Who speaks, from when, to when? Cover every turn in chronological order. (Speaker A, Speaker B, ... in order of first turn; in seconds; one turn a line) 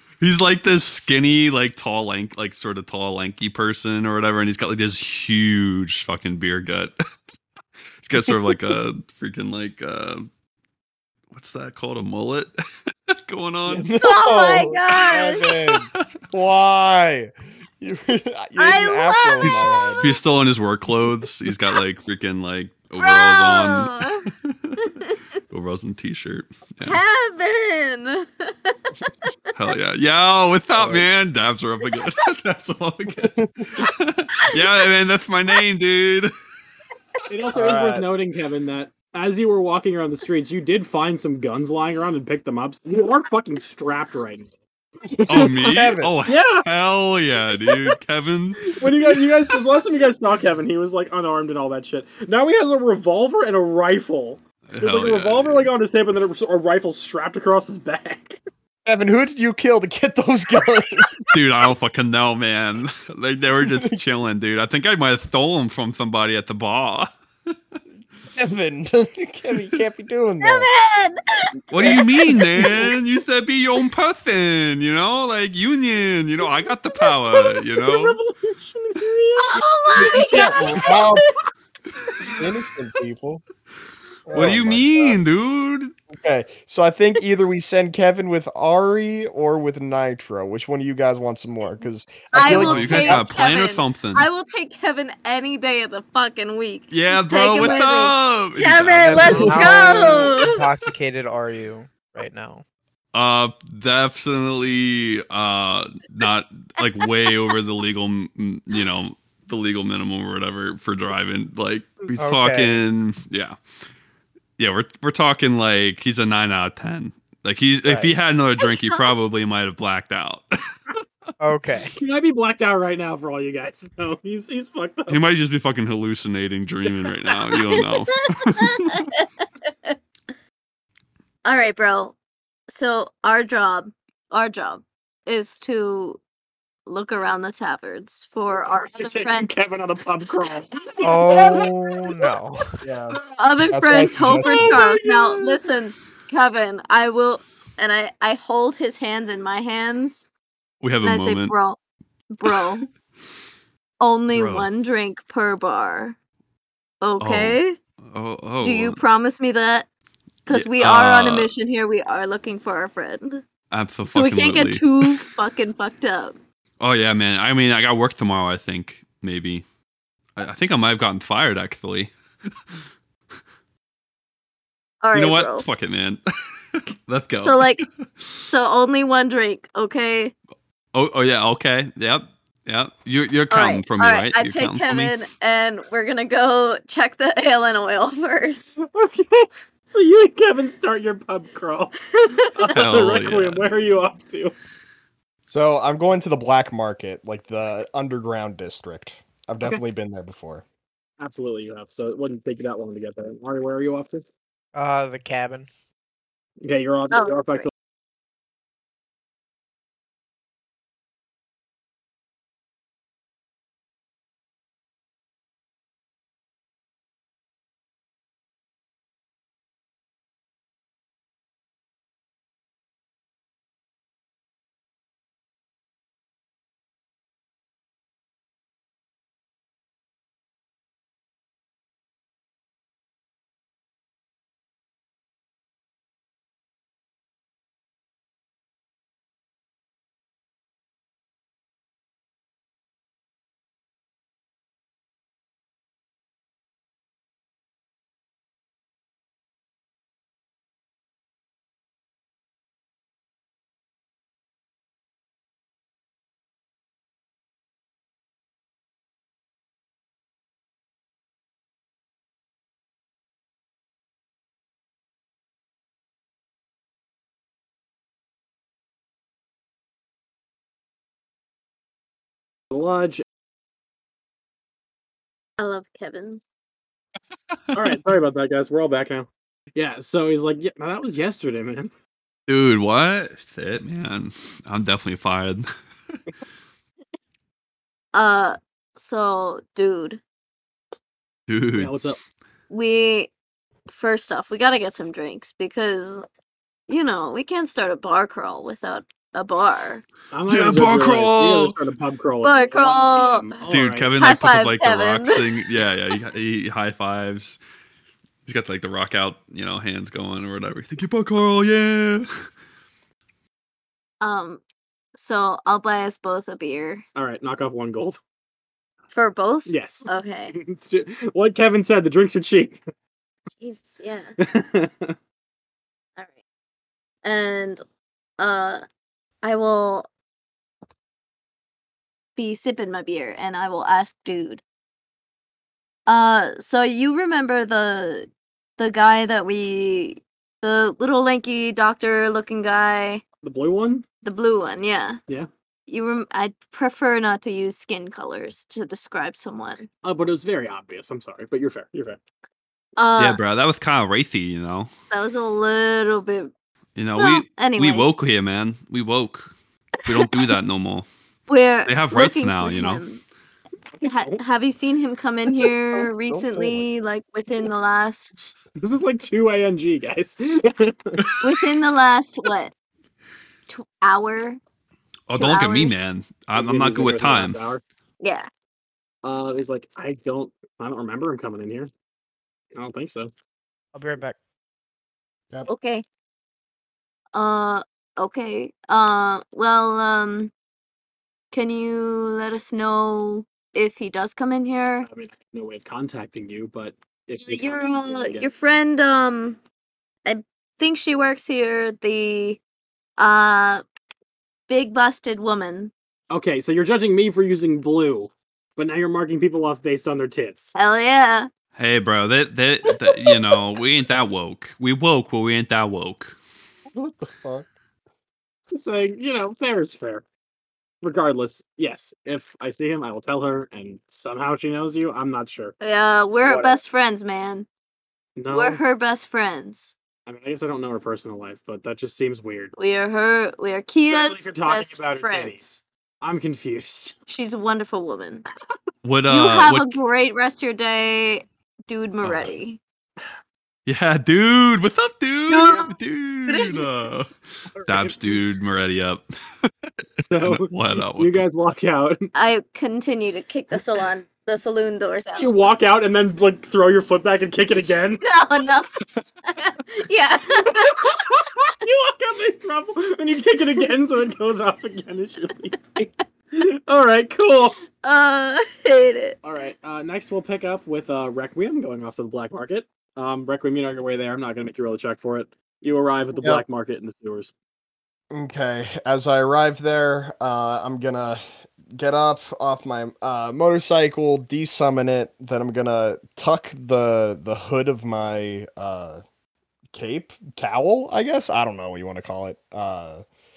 Speaker A: 0.2-6.9
Speaker A: 8.0-10.3
Speaker A: 11.3-12.5
Speaker A: 13.1-13.9
Speaker B: 13.7-20.0
Speaker C: 14.0-15.5
Speaker C: 18.6-20.1
Speaker A: 19.4-24.8
Speaker C: 23.0-24.3
Speaker C: 24.8-25.2
Speaker A: 25.5-27.0
Speaker C: 26.8-29.3
Speaker A: 29.5-36.3
Speaker B: 30.8-31.1
Speaker B: 33.2-33.7
Speaker D: 37.3-44.5
Speaker B: 37.5-38.1
Speaker D: 45.0-46.6
Speaker A: 45.3-48.7
Speaker B: 45.4-46.1
Speaker D: 48.6-58.4
Speaker A: 54.7-55.7
Speaker B: 58.9-61.1
Speaker A: 61.3-67.1
Speaker B: 63.6-64.0
Speaker B: 68.3-70.7
Speaker C: 70.4-72.6
Speaker A: 71.7-78.2
Speaker B: 71.8-72.9
Speaker D: 77.5-80.9
Speaker C: 79.4-81.3
Speaker B: 80.0-81.3
Speaker B: 82.4-83.4
Speaker B: 84.3-85.2
Speaker A: 84.3-85.9
Speaker B: 86.1-93.3
Speaker C: 92.3-100.6
Speaker A: 92.4-94.3
Speaker A: 96.9-100.1
Speaker E: 99.0-102.6
Speaker A: 103.1-113.6
Speaker E: 112.2-112.8
Speaker A: 114.6-120.4
Speaker B: 117.9-118.1
Speaker C: 118.6-119.0
Speaker E: 121.4-122.0
Speaker D: 122.0-125.2
Speaker A: 125.1-129.0
Speaker C: 127.5-129.9
Speaker C: 131.4-132.2
Speaker C: 132.7-136.2
Speaker C: 136.8-139.5
Speaker D: 138.9-142.3
Speaker C: 141.0-141.7
Speaker E: 141.0-142.8
Speaker B: 142.8-143.2
Speaker C: 143.2-150.3
Speaker B: 143.7-144.7
Speaker D: 144.4-145.0
Speaker A: 150.8-151.5
Speaker C: 151.0-151.8
Speaker C: 152.3-152.9
Speaker C: 154.0-156.2
Speaker A: 154.3-154.7
Speaker C: 157.0-157.7
Speaker A: 157.2-159.0
Speaker C: 158.6-159.9
Speaker C: 160.4-163.4
Speaker A: 160.5-161.5
Speaker A: 163.7-164.9
Speaker C: 164.1-166.4
Speaker A: 166.8-169.6
Speaker A: 170.4-172.1
Speaker C: 175.0-175.7
Speaker A: 175.1-176.2
Speaker A: 176.7-177.7
Speaker C: 177.4-177.8
Speaker C: 178.4-180.3
Speaker A: 180.9-185.1
Speaker C: 183.5-188.8
Speaker D: 188.8-194.5
Speaker C: 192.1-192.7
Speaker A: 192.7-193.6
Speaker B: 195.5-200.6
Speaker D: 201.2-204.2
Speaker E: 204.7-205.7
Speaker D: 206.6-207.7
Speaker C: 207.1-207.7
Speaker D: 272.7-273.2
Speaker C: 275.6-276.4
Speaker A: 277.5-278.0
Speaker D: 277.7-281.9
Speaker A: 282.5-286.2
Speaker C: 288.1-290.2
Speaker A: 291.5-291.9
Speaker D: 291.8-292.2
Speaker C: 292.7-293.3
Speaker C: 293.9-296.2
Speaker C: 296.9-300.0
Speaker D: 300.3-304.1
Speaker A: 300.5-301.8
Speaker C: 302.4-303.6
Speaker A: 303.7-307.6
Speaker C: 304.2-305.4
Speaker A: 308.4-312.3
Speaker C: 314.2-314.6
Speaker C: 315.1-317.0
Speaker D: 317.1-318.2
Speaker C: 319.1-320.6
Speaker D: 319.7-322.8
Speaker C: 323.6-324.3
Speaker D: 324.4-325.1
Speaker C: 327.2-327.8
Speaker C: 328.4-328.8
Speaker C: 329.4-330.1
Speaker C: 332.4-334.6
Speaker C: 336.1-343.2
Speaker D: 343.4-344.0
Speaker C: 344.2-345.2
Speaker C: 345.9-349.9
Speaker D: 350.0-352.2
Speaker C: 353.0-353.4
Speaker A: 353.2-354.9
Speaker C: 355.1-356.5
Speaker A: 356.9-359.5
Speaker C: 357.2-358.1
Speaker A: 360.0-361.1
Speaker C: 360.2-360.5
Speaker C: 361.5-363.2
Speaker A: 361.9-363.0
Speaker C: 364.0-368.5
Speaker D: 364.0-364.4
Speaker B: 366.2-366.8
Speaker D: 368.8-371.3
Speaker C: 371.4-372.7
Speaker C: 373.7-374.6
Speaker A: 375.3-377.6
Speaker C: 375.3-376.0
Speaker D: 376.5-377.8
Speaker C: 378.2-378.5
Speaker D: 379.2-381.9
Speaker D: 382.7-383.3
Speaker E: 383.9-384.4
Speaker C: 385.6-386.0
Speaker C: 387.3-390.5
Speaker C: 391.5-395.1
Speaker D: 395.0-398.5
Speaker C: 397.5-399.6
Speaker C: 400.2-402.6
Speaker C: 403.2-403.8
Speaker C: 404.7-405.9
Speaker D: 406.3-410.7
Speaker C: 410.7-411.5
Speaker A: 411.8-416.4
Speaker B: 416.9-417.7
Speaker D: 418.7-420.2
Speaker D: 421.0-425.7
Speaker C: 425.8-427.7
Speaker D: 426.4-426.8
Speaker D: 428.4-428.8
Speaker C: 428.5-429.9
Speaker D: 430.2-432.7
Speaker C: 432.8-435.6
Speaker D: 434.0-437.1
Speaker C: 437.3-438.4
Speaker A: 439.0-440.0
Speaker C: 439.3-442.8
Speaker A: 442.2-442.5
Speaker A: 443.9-451.4
Speaker C: 445.5-445.9
Speaker C: 446.5-446.9
Speaker D: 447.8-448.4
Speaker D: 450.2-452.2
Speaker C: 452.3-455.5
Speaker D: 455.3-458.2
Speaker C: 458.2-461.1
Speaker D: 460.7-467.8
Speaker C: 468.0-469.4
Speaker D: 469.4-477.5
Speaker B: 476.4-476.6
Speaker B: 478.3-481.4
Speaker B: 481.9-489.2
Speaker B: 489.9-493.2